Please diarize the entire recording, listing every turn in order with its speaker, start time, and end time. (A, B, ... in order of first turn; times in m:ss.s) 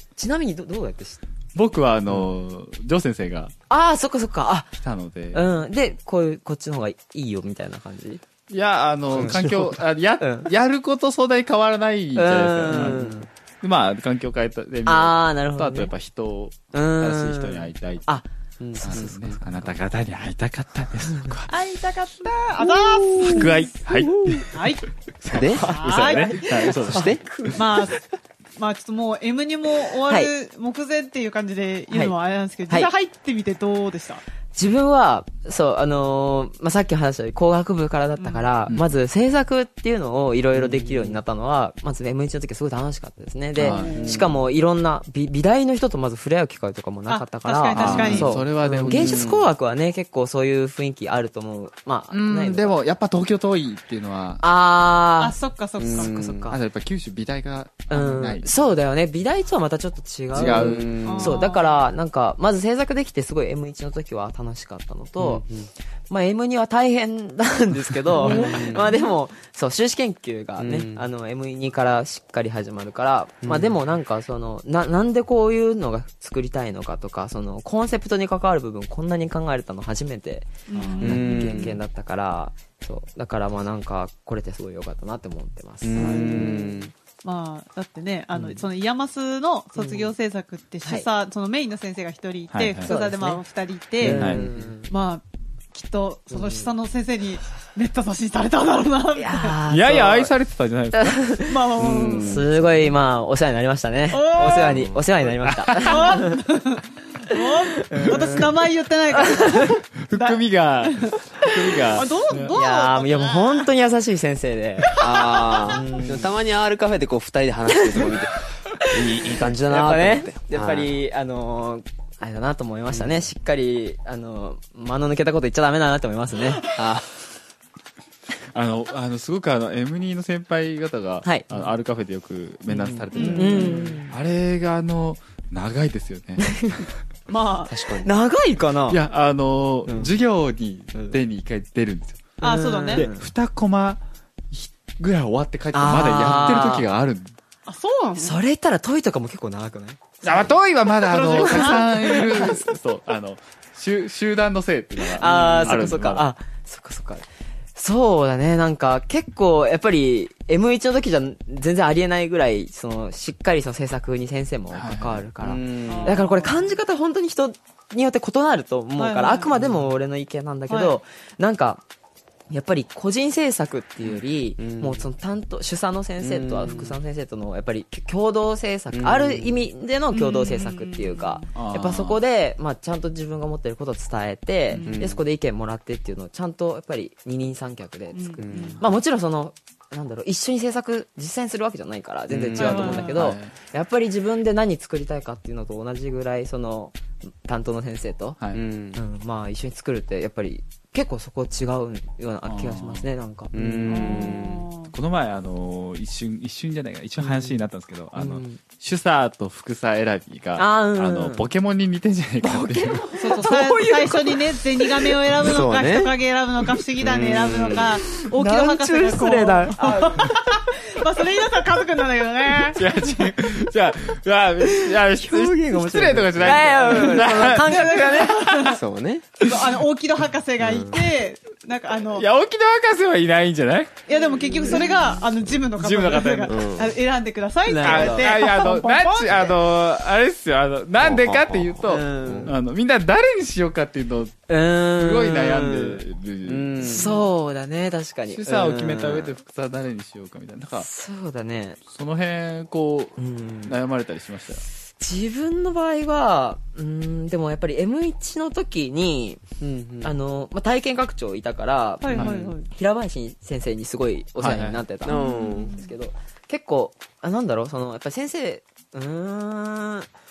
0:00.2-0:01.2 A
0:01.6-0:03.5 B
0:03.7-0:04.7 A
0:04.8-0:05.4 B
0:05.3-0:08.2 A
0:08.5-0:13.0 B
0:09.1-0:09.5 C
0:09.2-0:09.5 A
0:10.2-0:10.5 A
0:12.2-0:13.3 A
0:12.7-0:13.2 C
0:13.6-0:18.1 B
0:14.9-0:15.9 A
0:16.7-0:19.7 A
0:18.6-0:19.4 C
0:18.8-0:21.5 B
0:21.5-0:23.6 D
0:23.0-0:23.5 C
0:23.2-0:24.5 B
0:24.1-0:24.4 C
0:24.5-0:24.9 D
0:25.2-0:25.7 C
0:25.5-0:26.8 D
0:25.6-0:27.6 A
0:25.6-0:27.6 B
0:26.8-0:27.2 C
0:27.6-0:28.0 D
0:28.6-0:34.2 D
0:34.5-0:52.8 A
0:38.2-0:38.5 D
0:40.5-0:41.2 C
0:43.6-0:44.0 B
0:43.6-0:44.2 D
0:43.8-0:44.4 C
0:47.1-0:48.4 D
0:47.7-0:49.4 B
0:47.9-0:48.3 C
0:48.8-0:49.4 C
0:52.1-0:54.4 B
0:54.4-0:56.6 A
0:55.2-0:56.1 D
0:55.8-0:56.5 C
0:56.5-0:58.5 B
0:57.9-1:05.4 A
1:00.3-1:01.4 C
1:00.4-1:01.0 B
1:01.1-1:01.7 D
1:05.2-1:05.7 C
1:06.1-1:26.9 A
1:08.2-1:09.1 D
1:08.2-1:08.9 C
1:10.6-1:11.1 C
1:13.4-1:13.8 C
1:20.7-1:21.7 D
1:20.8-1:21.2 B
1:21.0-1:21.8 C
1:25.8-1:26.9 C
1:26.0-1:26.6 D
1:27.2-1:34.3 D
1:28.4-1:28.6 A
1:29.8-1:30.1 A
1:32.5-1:32.9 B
1:32.8-1:33.4 A
1:34.0-1:34.9 A
1:34.0-1:34.5 B
1:34.3-1:34.7 C
1:34.9-1:39.6 D
1:36.3-1:36.7 A
1:39.2-1:40.3 A
1:39.7-1:41.3 B
1:40.9-1:46.4 A
1:41.5-1:42.5 D
1:41.8-1:42.5 C
1:44.1-1:44.8 D
1:44.7-1:45.0 C
1:45.4-1:46.0 B
1:45.8-1:51.2 D
1:47.3-1:48.5 A
1:49.1-1:49.8 A
1:50.0-1:52.6 B
1:51.9-1:53.7 D
1:52.5-1:55.0 A
1:54.9-1:55.8 D
1:55.0-2:00.9 C
1:55.5-1:56.3 A
1:57.8-1:58.1 A
1:58.8-2:06.8 A
2:06.7-2:07.1 C
2:08.5-2:16.9 B
2:11.2-2:11.5 A
2:12.9-2:14.2 A
2:13.1-2:13.8 D
2:13.2-2:14.0 C
2:16.4-2:16.8 A
2:17.3-2:17.8 D
2:17.7-2:18.1 C
2:18.0-2:19.0 A
2:18.9-2:22.2 B
2:19.9-2:20.1 A
2:22.4-2:23.1 D
2:22.4-2:23.3 A
2:22.9-2:27.3 B
2:25.7-2:26.9 A
2:27.7-2:28.4 D
2:28.2-2:30.6 A
2:30.2-2:36.3 B
2:31.1-2:32.6 D
2:31.2-2:32.6 A
2:35.2-2:51.8 A
2:35.2-2:35.9 C
2:44.7-2:45.2 B
2:45.4-2:46.2 C
2:45.9-2:46.7 D
2:49.0-2:49.5 D
2:49.6-2:49.8 C
2:50.7-2:51.0 D
2:52.5-3:18.4 A
2:54.6-2:55.1 C
2:56.2-2:57.0 C
2:58.9-2:59.7 C
3:00.1-3:01.4 D
3:01.5-3:02.2 B
3:04.7-3:05.0 D
3:04.8-3:05.2 C
3:08.1-3:08.8 D
3:08.4-3:08.8 C
3:12.3-3:12.8 C
3:12.6-3:13.2 D
3:12.6-3:13.5 B
3:18.5-3:19.0 C
3:19.0-3:24.4 A
3:22.5-3:23.1 B
3:23.5-3:24.7 C
3:23.9-3:24.9 D
3:24.9-3:33.2 B
3:27.2-3:27.5 A
3:28.2-3:28.6 A
3:30.6-3:31.5 A
3:32.4-3:35.1 A
3:33.2-3:43.3 D
3:35.4-3:36.1 C
3:37.0-3:38.0 C
3:38.1-3:40.4 A
3:42.7-3:48.8 B
3:44.6-3:48.5 A
3:46.8-3:48.8 D
3:48.6-3:49.3 C
3:49.4-3:52.3 D
3:50.6-3:51.0 C
3:52.1-3:54.0 B
3:54.1-3:59.6 D
3:54.6-3:55.0 C
3:55.8-3:56.6 B
3:56.5-3:57.0 C
3:57.7-3:58.6 A
3:57.8-4:07.2 B
4:01.0-4:02.5 C
4:01.8-4:02.5 A
4:04.5-4:06.0 A
4:06.5-4:07.2 C
4:06.8-4:09.3 A
4:08.3-4:10.9 B
4:10.8-4:11.8 A
4:11.9-4:14.6 B
4:13.2-4:13.8 A
4:15.0-4:19.4 A
4:19.6-4:20.1 C
4:20.0-4:30.1 A
4:22.0-4:22.7 D
4:22.2-4:22.5 C
4:24.4-4:24.8 B
4:25.0-4:25.8 C
4:25.1-4:25.9 D